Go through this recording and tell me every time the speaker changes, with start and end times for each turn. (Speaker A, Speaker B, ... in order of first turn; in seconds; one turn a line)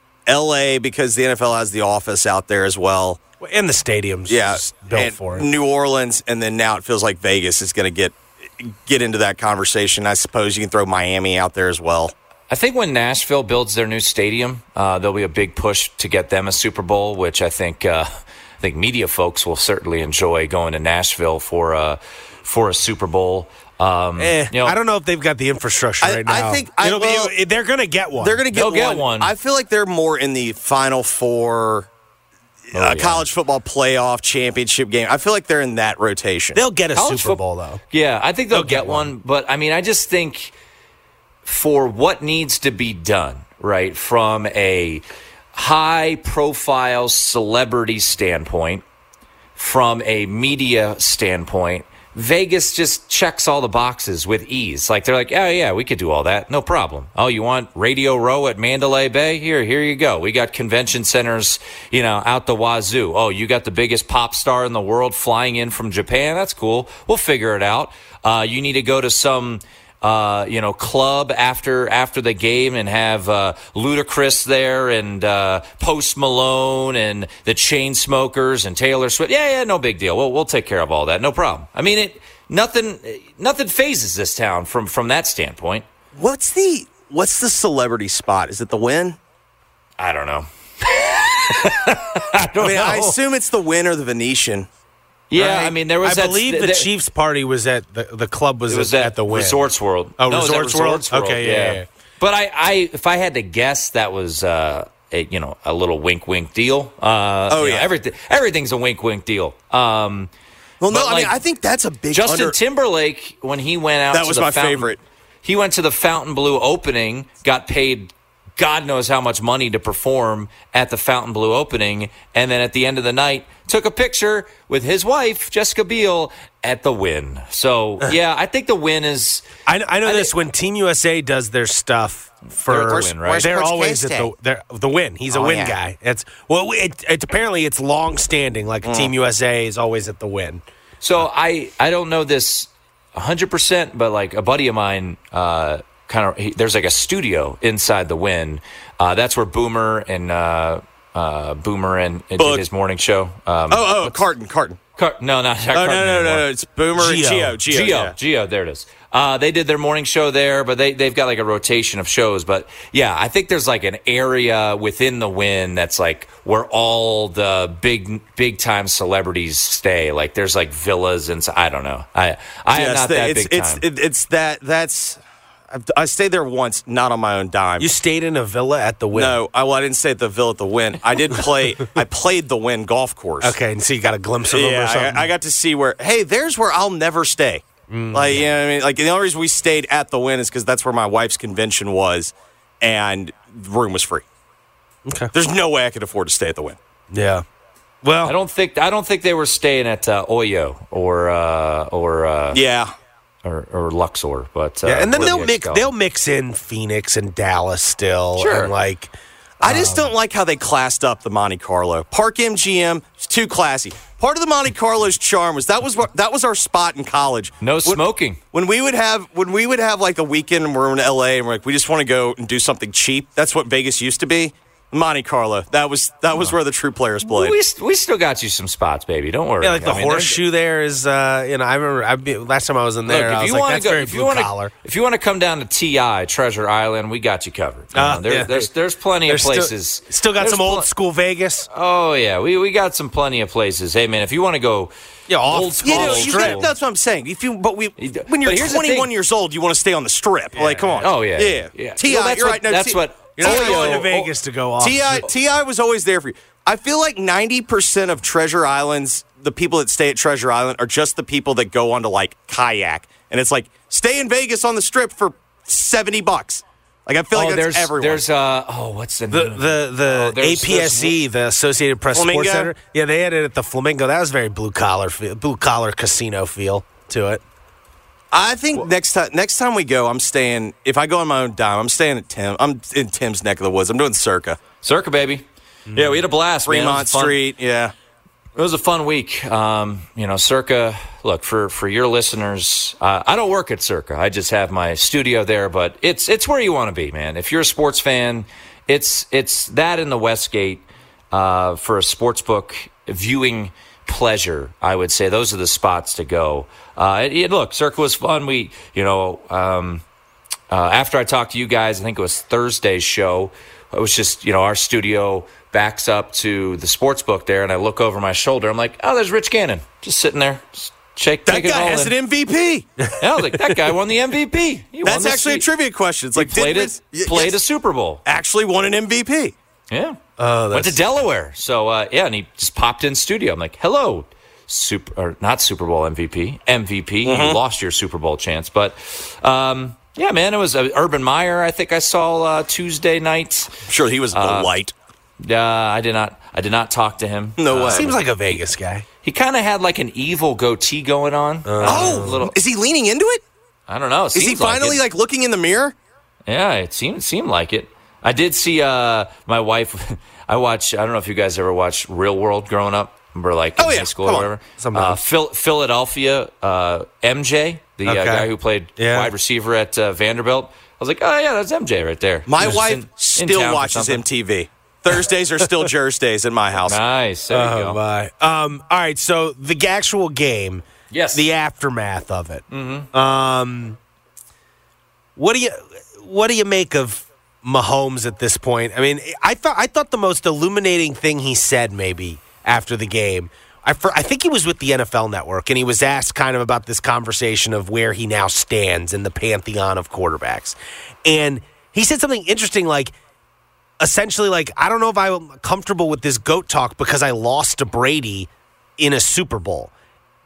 Speaker A: 0.3-3.2
Speaker B: 3.4-5.5
Speaker A: 4.3-12.1
Speaker C: 12.5-24.8
Speaker B: 24.2-28.4
Speaker A: 26.0-27.3
Speaker A: 28.2-31.9
Speaker C: 28.5-29.3
Speaker A: 32.7-36.6
Speaker C: 32.7-33.3
Speaker B: 36.5-37.8
Speaker C: 36.9-40.5
Speaker B: 38.5-39.1
Speaker C: 41.4-45.0
Speaker C: 45.5-48.8
Speaker C: 49.5-85.8
Speaker A: 86.1-89.2
Speaker C: 90.0-93.1
Speaker B: 92.4-93.1
Speaker A: 92.6-94.7
Speaker C: 95.3-96.9
Speaker B: 95.3-101.8
Speaker C: 98.7-110.3
Speaker A: 107.5-107.9
Speaker A: 110.8-112.6
Speaker C: 110.9-111.4
Speaker C: 112.1-129.4
Speaker A: 114.1-115.0
Speaker B: 129.7-140.6
Speaker C: 130.0-130.3
Speaker C: 132.7-133.5
Speaker A: 132.8-134.3
Speaker A: 135.3-135.8
Speaker A: 138.8-139.1
Speaker C: 141.0-154.2
Speaker A: 152.4-152.6
Speaker A: 153.7-154.8
Speaker C: 154.9-156.5
Speaker A: 155.7-158.2
Speaker B: 157.0-157.6
Speaker C: 157.6-173.8
Speaker A: 172.7-177.9
Speaker B: 177.8-179.4
Speaker A: 179.1-183.6
Speaker B: 183.4-185.3
Speaker A: 184.5-194.2
Speaker B: 187.9-188.4
Speaker A: 195.3-196.8
Speaker B: 197.1-197.4
Speaker B: 198.0-198.3
Speaker C: 198.2-202.6
Speaker A: 202.5-202.9
Speaker C: 203.4-205.9
Speaker B: 204.8-209.1
Speaker C: 208.3-208.7
Speaker A: 209.6-227.6
Speaker B: 209.6-210.1
Speaker C: 217.6-218.4
Speaker C: 227.2-230.4
Speaker B: 229.6-234.7
Speaker C: 233.1-240.9
Speaker B: 237.9-238.7
Speaker B: 239.2-241.7
Speaker C: 241.7-244.9
Speaker B: 245.3-246.6
Speaker C: 245.4-246.7
Speaker A: 245.8-254.1
Speaker C: 248.0-249.1
Speaker B: 250.5-251.0
Speaker C: 251.0-254.3
Speaker B: 253.4-255.2
Speaker A: 254.8-268.2
Speaker C: 267.3-271.2
Speaker B: 269.3-277.4
Speaker A: 272.1-272.7
Speaker A: 278.3-284.6
Speaker C: 284.8-285.4
Speaker B: 285.9-286.2
Speaker C: 285.9-287.4
Speaker A: 286.6-287.9
Speaker C: 288.6-310.0
Speaker C: 310.7-322.2
Speaker A: 321.4-322.9
Speaker B: 323.0-323.8
Speaker C: 323.2-325.7
Speaker A: 325.0-327.6
Speaker C: 326.3-328.2
Speaker A: 328.2-329.5
Speaker C: 329.9-330.2
Speaker B: 330.4-331.0
Speaker C: 330.7-344.7
Speaker A: 337.2-337.6
Speaker A: 343.8-344.9
Speaker C: 345.4-348.6
Speaker A: 347.6-348.1
Speaker B: 347.9-349.1
Speaker C: 349.2-352.6
Speaker B: 351.6-352.5
Speaker A: 351.8-353.4
Speaker C: 353.9-355.0
Speaker A: 354.3-355.9
Speaker C: 356.5-374.3
Speaker A: 363.8-364.2
Speaker B: 364.2-365.2
Speaker B: 368.0-369.3
Speaker A: 372.5-377.0
Speaker C: 376.8-378.0
Speaker B: 377.5-384.0
Speaker C: 381.1-381.4
Speaker C: 382.7-383.1
Speaker B: 385.4-403.1
Speaker B: 404.0-409.9